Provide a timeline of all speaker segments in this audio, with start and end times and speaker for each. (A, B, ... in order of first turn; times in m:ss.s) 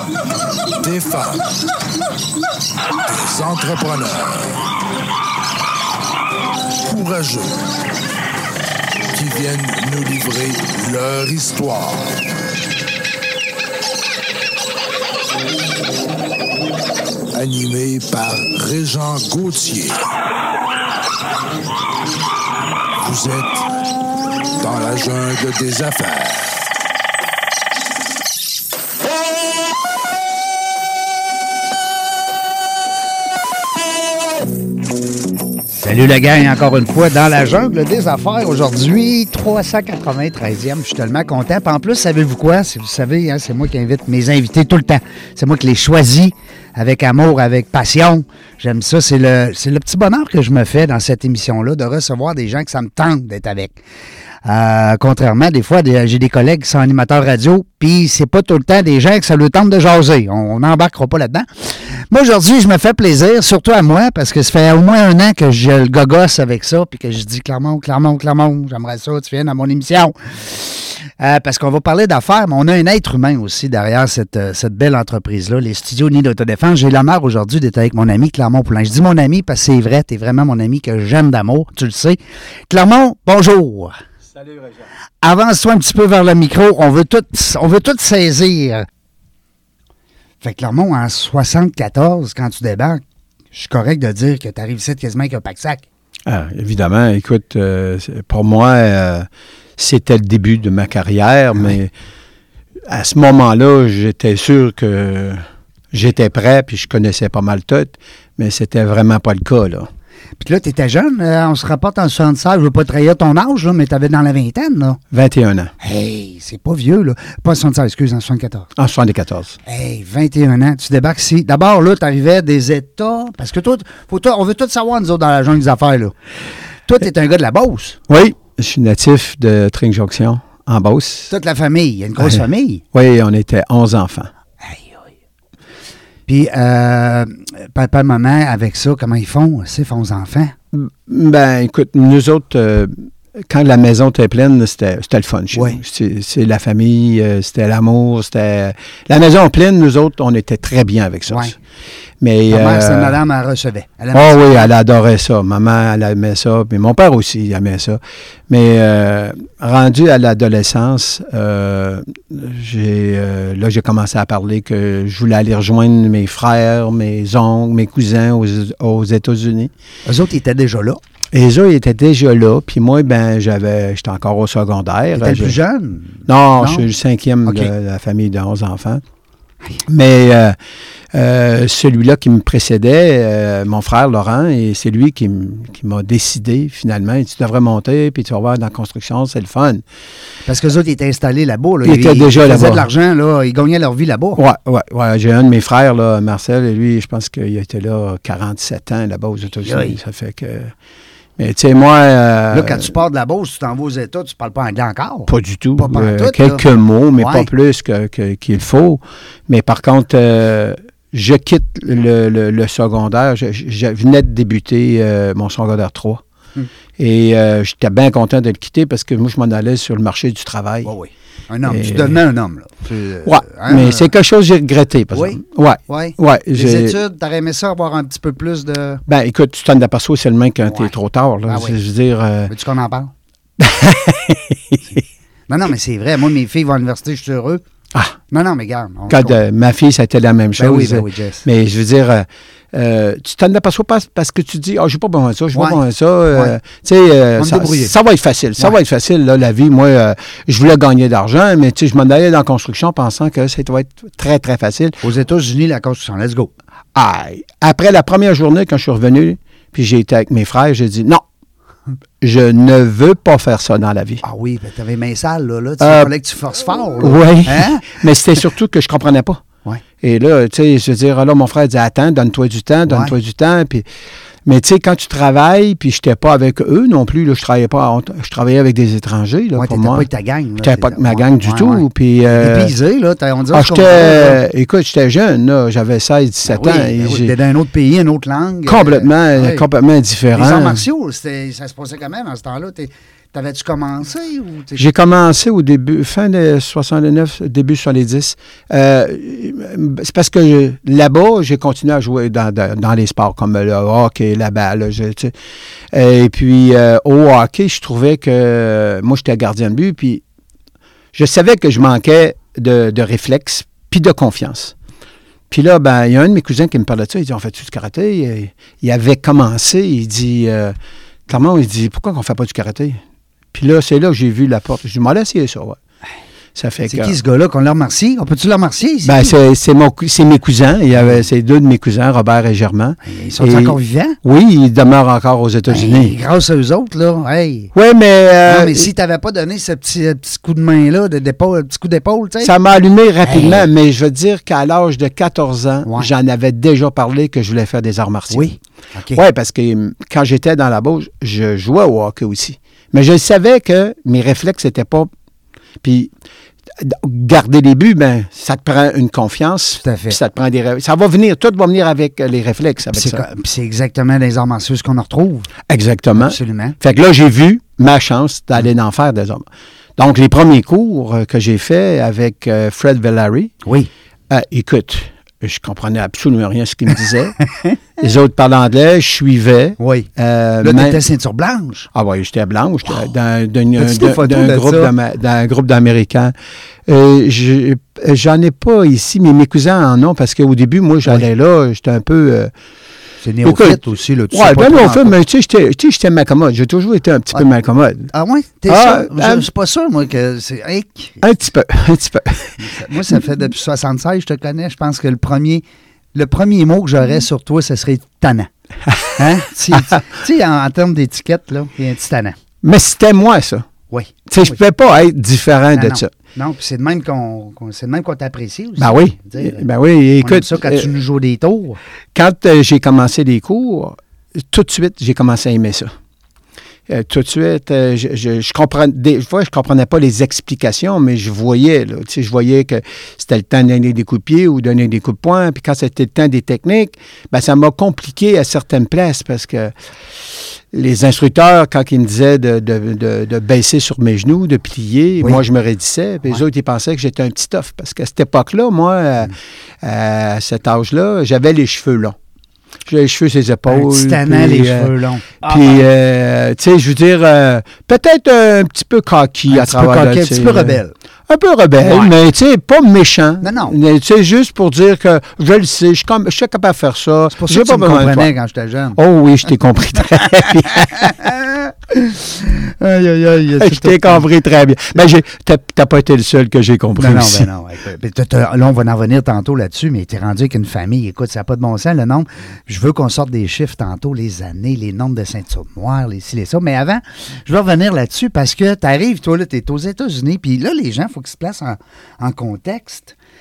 0:00.8-0:01.5 A
0:03.2-0:04.6 A
0:06.8-0:07.6 A
0:09.1-0:12.2 A
0:17.3-0:20.0 A
0:23.0-0:23.7 A
0:24.6-0:26.7 A
0:35.8-0:53.8 B
0:54.4-1:01.4 B
1:02.0-1:23.9 B
1:25.2-1:28.8 B
1:30.4-1:33.0 B
1:33.5-1:35.8 B
1:36.2-1:39.2 C
1:39.8-1:41.9 C
1:42.9-1:49.9 C
1:50.4-1:55.0 B
1:55.1-1:55.7 C
1:55.8-1:58.7 B
1:58.8-1:59.6 C
1:59.6-2:06.1 B
2:06.9-2:08.0 B
2:08.1-2:11.3 C
2:11.3-2:12.8 B
2:12.9-2:14.3 C
2:14.6-2:15.0 B
2:16.3-2:20.5 B
2:20.7-2:31.6 C
2:25.5-2:25.8 B
2:31.3-2:31.5 B
2:32.2-2:33.2 C
2:32.5-2:34.7 B
2:34.1-2:49.7 C
2:50.0-2:51.0 B
2:51.3-2:55.6 C
2:55.1-2:56.8 B
2:56.3-2:59.0 C
2:57.5-2:57.7 B
2:59.9-3:00.6 C
3:01.1-3:09.8 C
3:10.5-3:14.4 B
3:11.8-3:12.9 C
3:14.4-3:20.7 C
3:19.6-3:20.0 B
3:21.4-3:22.9 C
3:22.5-3:26.6 B
3:25.3-3:36.2 C
3:27.2-3:27.5 B
3:37.0-3:40.9 C
3:40.8-3:44.1 B
3:41.6-3:42.2 C
3:43.2-3:47.0 C
3:45.1-3:49.0 B
3:49.1-3:52.5 C
3:50.7-3:50.9 B
3:51.5-3:51.8 B
3:52.5-3:53.1 B
3:53.6-3:55.0 C
3:55.5-3:57.6 B
3:58.3-3:59.4 B
3:59.1-4:15.0 C
4:00.6-4:01.4 B
4:05.5-4:05.8 B
4:07.4-4:07.9 B
4:15.0-4:16.5 B
4:16.9-4:21.2 C
4:22.2-4:24.2 C
4:24.2-4:27.8 B
4:25.8-4:26.1 C
4:27.0-4:29.4 C
4:30.0-4:33.8 C
4:32.9-4:33.1 B
4:34.4-4:40.1 C
4:39.5-4:44.4 B
4:40.6-4:42.7 C
4:43.5-4:47.3 C
4:46.4-4:49.6 B
4:48.6-4:50.8 C
4:50.3-4:54.8 B
4:54.8-5:05.3 C
5:05.9-5:10.2 C
5:11.1-5:14.7 C
5:15.5-5:20.7 C
5:21.3-5:23.0 C
5:23.5-5:25.8 C
5:26.6-5:27.2 C
5:26.8-5:29.3 B
5:29.0-5:36.1 C
5:31.0-5:31.2 B
5:33.0-5:34.2 B
5:35.7-5:37.7 B
5:37.7-5:38.9 C
5:38.4-5:42.5 B
5:42.4-5:48.5 C
5:43.2-5:43.7 B
5:48.3-5:49.2 B
5:49.1-5:55.1 C
5:55.8-5:56.1 C
5:56.8-6:03.2 C
5:59.8-6:00.2 B
6:02.9-6:05.5 B
6:05.7-6:09.4 C
6:06.2-6:06.8 B
6:10.0-6:13.5 C
6:14.3-6:17.4 C
6:18.0-6:21.0 C
6:19.8-6:20.1 B
6:20.6-6:21.9 B
6:21.9-6:26.3 C
6:23.8-6:24.9 B
6:26.8-6:32.5 C
6:33.2-6:35.2 B
6:33.4-6:33.8 C
6:34.3-6:38.1 C
6:38.1-6:41.2 B
6:38.7-6:39.4 C
6:41.2-6:43.2 C
6:42.6-6:48.5 B
6:49.1-6:52.4 B
6:52.6-6:53.7 C
6:53.9-6:54.6 B
6:54.3-6:56.1 C
6:55.7-6:59.6 B
6:58.8-7:00.9 C
7:00.2-7:01.8 B
7:02.1-7:05.9 C
7:06.9-7:19.7 C
7:20.7-7:32.2 C
7:32.8-7:48.3 C
7:33.7-7:35.8 B
7:39.5-7:40.9 B
7:41.8-7:42.1 B
7:43.4-7:43.7 B
7:47.3-7:49.0 B
7:49.0-7:51.2 C
7:50.6-7:54.2 B
7:53.6-7:57.5 C
7:57.0-8:13.1 B